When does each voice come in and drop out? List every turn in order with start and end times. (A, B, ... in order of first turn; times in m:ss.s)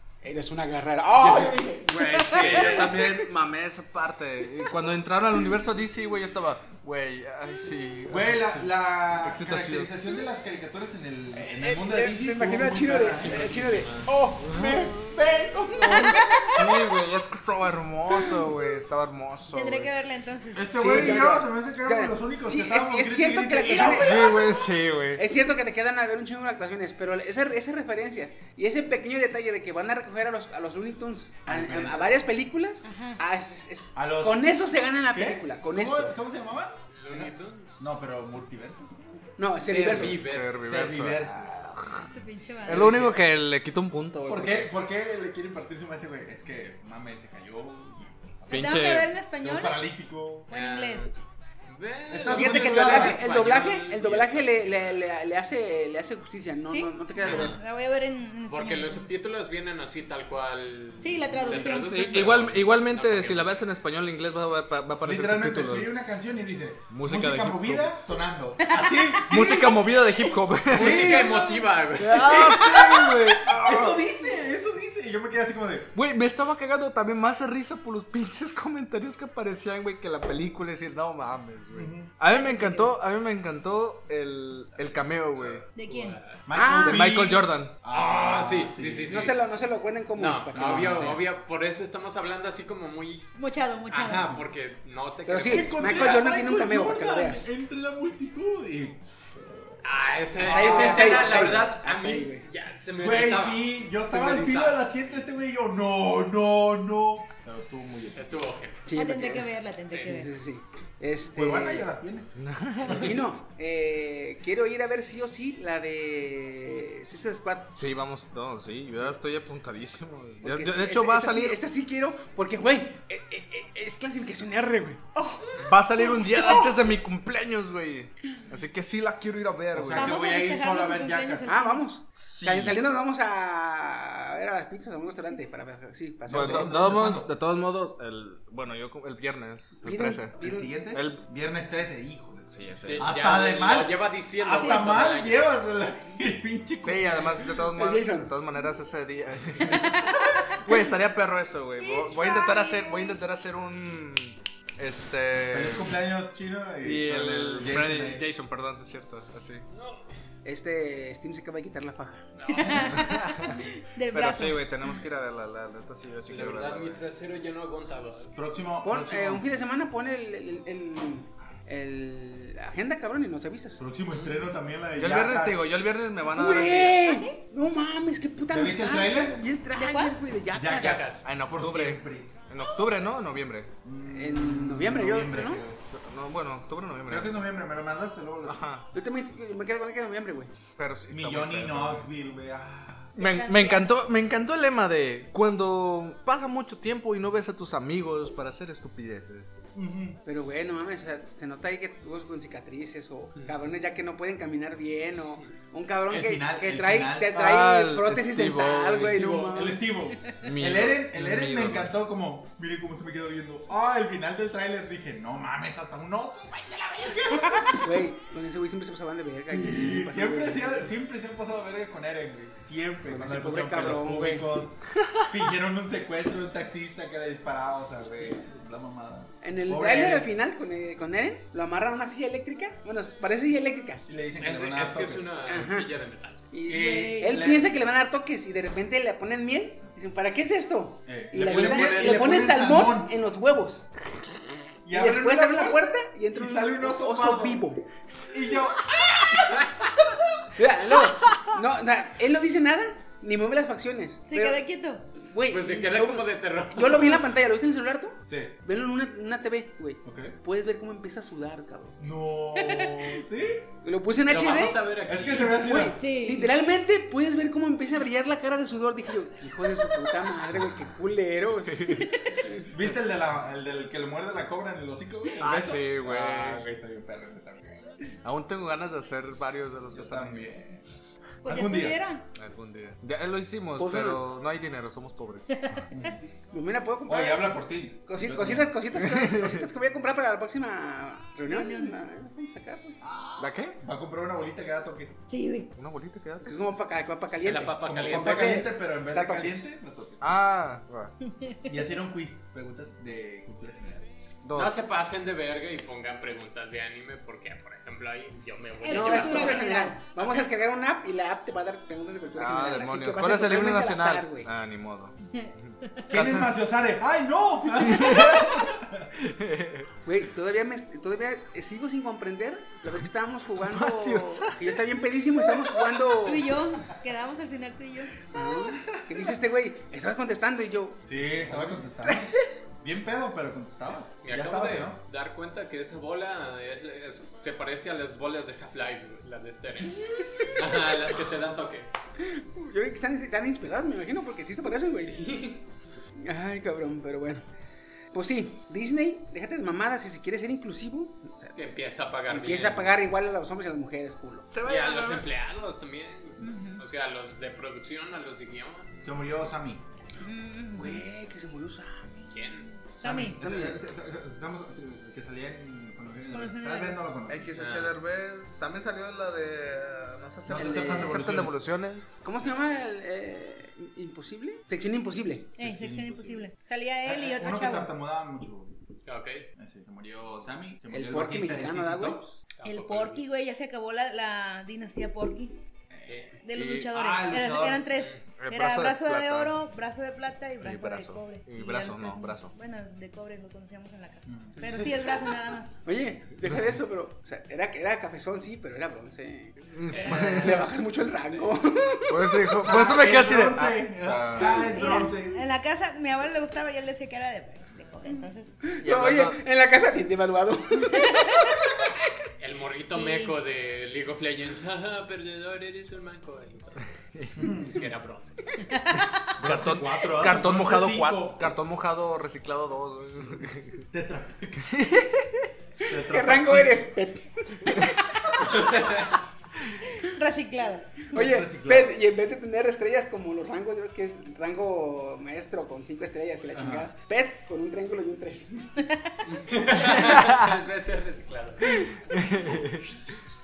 0:00.2-0:03.2 A
0:01.2-0:03.1 B
0:02.2-0:09.9 C
0:02.3-0:02.6 D
0:08.1-0:16.3 E
0:11.3-0:16.6 A
0:13.1-0:14.1 B
0:14.4-0:14.8 C
0:16.5-0:19.9 C
0:19.5-0:21.2 D
0:20.5-0:24.7 E
0:20.7-0:24.4 A
0:23.7-0:25.2 C
0:25.2-0:36.1 A
0:31.4-0:32.2 E
0:32.8-0:33.2 D
0:34.0-0:34.5 E
0:35.1-0:39.3 E
0:36.9-0:37.8 B
0:39.4-0:40.2 A
0:39.6-0:40.6 B
0:39.9-0:42.1 C
0:40.6-0:42.0 E
0:42.1-0:42.9 D
0:42.6-0:44.7 C
0:42.7-0:43.2 E
0:44.3-0:50.5 E
0:48.5-0:49.1 C
0:48.5-0:49.8 D
0:50.5-0:51.1 D
0:50.5-0:51.1 B
0:51.6-0:55.0 B
0:52.1-0:53.2 E
0:52.2-0:57.6 A
0:56.7-0:59.1 D
0:57.2-0:57.6 B
0:58.5-1:03.5 B
1:01.0-1:02.1 D
1:01.4-1:05.9 C
1:05.0-1:09.8 E
1:06.9-1:07.9 C
1:08.6-1:09.7 D
1:09.2-1:11.2 C
1:10.7-1:11.4 E
1:10.7-1:12.7 B
1:11.0-1:11.7 D
1:12.0-1:14.1 C
1:12.0-1:15.9 E
1:15.9-1:25.6 C
1:21.7-1:22.1 E
1:22.3-1:22.9 D
1:25.8-1:26.2 D
1:25.8-1:26.4 B
1:26.4-1:29.3 E
1:26.5-1:27.2 A
1:26.7-1:27.8 C
1:27.9-1:29.4 B
1:29.1-1:31.2 A
1:30.2-1:33.3 B
1:30.5-1:31.2 E
1:33.4-1:34.4 D
1:33.9-1:36.3 B
1:35.2-1:37.5 A
1:35.5-1:39.8 E
1:39.8-1:45.2 B
1:40.4-1:41.6 E
1:40.4-1:42.4 A
1:43.0-1:48.3 E
1:48.1-1:48.8 B
1:48.8-1:51.9 A
1:48.9-1:50.3 D
1:49.9-1:50.2 B
1:51.3-1:52.3 E
1:52.4-1:53.2 C
1:52.8-1:53.2 E
1:52.8-1:57.7 A
1:57.7-2:01.6 C
2:00.4-2:05.1 A
2:05.2-2:05.5 E
2:05.6-2:10.2 C
2:09.7-2:11.6 E
2:09.9-2:11.8 D
2:11.4-2:16.8 A
2:12.2-2:12.8 C
2:16.3-2:17.3 E
2:16.3-2:21.2 C
2:19.8-2:20.7 A
2:20.4-2:27.6 E
2:22.5-2:23.2 C
2:22.8-2:25.5 B
2:24.5-2:25.0 D
2:26.8-2:36.0 C
2:27.8-2:28.3 A
2:31.8-2:33.2 D
2:35.5-2:38.2 E
2:36.8-2:39.6 C
2:39.7-2:40.1 B
2:40.4-2:42.2 A
2:42.4-2:43.1 B
2:42.5-2:44.6 D
2:42.7-2:43.6 C
2:44.1-2:47.0 C
2:46.3-2:48.3 B
2:48.3-2:49.4 E
2:48.8-2:53.8 A
2:53.8-2:55.6 E
2:54.1-2:54.4 B
2:54.9-2:57.1 C
2:56.2-3:01.1 A
2:57.0-2:57.3 D
2:58.5-2:59.4 E
2:59.8-3:00.2 D
3:00.5-3:02.4 E
3:00.7-3:01.3 B
3:01.4-3:03.7 C
3:03.8-3:05.8 E
3:04.1-3:05.6 A
3:05.9-3:07.4 C
3:07.1-3:08.6 E
3:08.4-3:08.9 C
3:08.9-3:10.5 A
3:10.8-3:12.1 C
3:11.1-3:13.2 E
3:13.2-3:19.6 C
3:13.2-3:14.0 D
3:19.7-3:20.2 E
3:20.2-3:29.9 A
3:26.1-3:27.4 E
3:27.3-3:29.6 C
3:29.5-3:38.0 E
3:30.4-3:31.9 C
3:37.7-3:40.9 A
3:39.5-3:50.3 E
3:43.1-3:44.5 A
3:49.4-3:54.0 A
3:54.0-3:55.3 E
3:54.4-3:56.5 B
3:55.5-3:55.9 A
3:56.5-4:03.9 A
3:56.7-3:57.8 E
3:56.7-3:57.5 D
4:01.0-4:03.1 E
4:01.4-4:02.2 B
4:04.8-4:07.6 E
4:04.9-4:07.8 A
4:08.3-4:10.1 E
4:10.5-4:22.0 A
4:14.3-4:15.1 D
4:15.5-4:17.3 B
4:18.3-4:18.5 E
4:20.0-4:20.3 E
4:22.0-4:23.7 E
4:22.6-4:23.2 D
4:23.8-4:24.8 A
4:24.3-4:25.6 B
4:25.0-4:26.0 E
4:25.6-4:32.6 A
4:25.9-4:26.6 D
4:31.6-4:32.1 C
4:32.1-4:32.4 D
4:32.7-4:38.0 E
4:35.4-4:36.7 C
4:38.2-4:40.6 C
4:39.9-4:40.8 E
4:41.4-4:42.0 E
4:41.4-4:42.2 D
4:42.3-4:45.5 C
4:43.8-4:44.2 A
4:45.5-4:45.9 D
4:45.9-4:46.2 E
4:46.5-4:53.0 A
4:47.0-4:48.8 E
4:49.0-4:49.6 C
4:51.5-4:52.0 D
4:53.0-4:55.2 E
4:53.4-4:53.8 C
4:55.3-4:55.7 D
4:55.7-4:56.6 C
4:56.4-4:59.6 A
4:57.4-4:58.6 B
4:57.8-5:00.4 E
5:00.2-5:01.1 C
5:01.7-5:04.1 E
5:04.4-5:04.8 C
5:04.6-5:09.7 B
5:08.8-5:10.0 D
5:08.9-5:14.5 A
5:12.3-5:15.1 C
5:15.3-5:16.1 D
5:16.1-5:16.5 C
5:16.1-5:19.1 E
5:17.8-5:18.6 C
5:19.2-5:19.9 C
5:20.0-5:26.5 A
5:23.6-5:24.7 C
5:26.2-5:28.4 D
5:28.3-5:31.8 A
5:31.0-5:35.0 E
5:34.2-5:41.9 B
5:42.2-5:45.5 A
5:45.0-5:45.6 B
5:46.2-5:47.4 A
5:48.1-5:51.6 A
5:51.6-5:52.9 B
5:52.3-5:54.5 A
5:54.5-5:55.2 C
5:54.6-5:59.0 B
5:56.4-5:56.8 D
5:59.0-5:59.8 E
6:00.2-6:01.0 D
6:00.7-6:02.5 A
6:02.3-6:02.7 B
6:03.0-6:07.5 E
6:03.0-6:03.4 D
6:03.2-6:03.8 A
6:06.3-6:07.0 D
6:07.3-6:12.2 C
6:07.5-6:07.9 B
6:10.4-6:11.6 E
6:10.6-6:11.1 A
6:12.2-6:15.5 A
6:15.6-6:17.9 D
6:15.6-6:16.5 E
6:17.0-6:18.7 E
6:19.0-6:19.5 B
6:19.6-6:22.4 E
6:20.9-6:22.2 A
6:22.6-6:23.2 B
6:22.6-6:25.5 D
6:25.9-6:26.2 E
6:26.0-6:26.4 B
6:26.4-6:35.7 D
6:26.5-6:26.9 C
6:26.9-6:27.9 E
6:27.9-6:28.2 B
6:28.3-6:29.5 C
6:30.6-6:32.5 C
6:34.2-6:34.6 E
6:35.8-6:42.5 A
6:39.7-6:40.7 C
6:39.9-6:40.6 B
6:41.2-6:41.5 B
6:42.1-6:44.8 C
6:42.6-6:45.4 E
6:44.4-6:48.7 D
6:48.7-6:51.4 A
6:48.8-6:49.4 C
6:50.9-6:51.5 D
6:52.4-6:56.9 B
6:52.9-6:53.3 D
6:57.3-6:57.9 E
6:57.7-6:58.6 B
6:58.7-6:59.1 D
6:59.4-7:01.5 E
6:59.4-7:03.8 C
7:03.9-7:04.8 E
7:04.6-7:05.5 C
7:05.9-7:06.9 E
7:06.0-7:09.0 A
7:08.6-7:09.1 B
7:09.9-7:11.1 D
7:11.1-7:18.8 A
7:11.1-7:12.0 E
7:16.5-7:16.9 E
7:19.2-7:21.9 B
7:19.8-7:20.6 C
7:21.8-7:22.9 C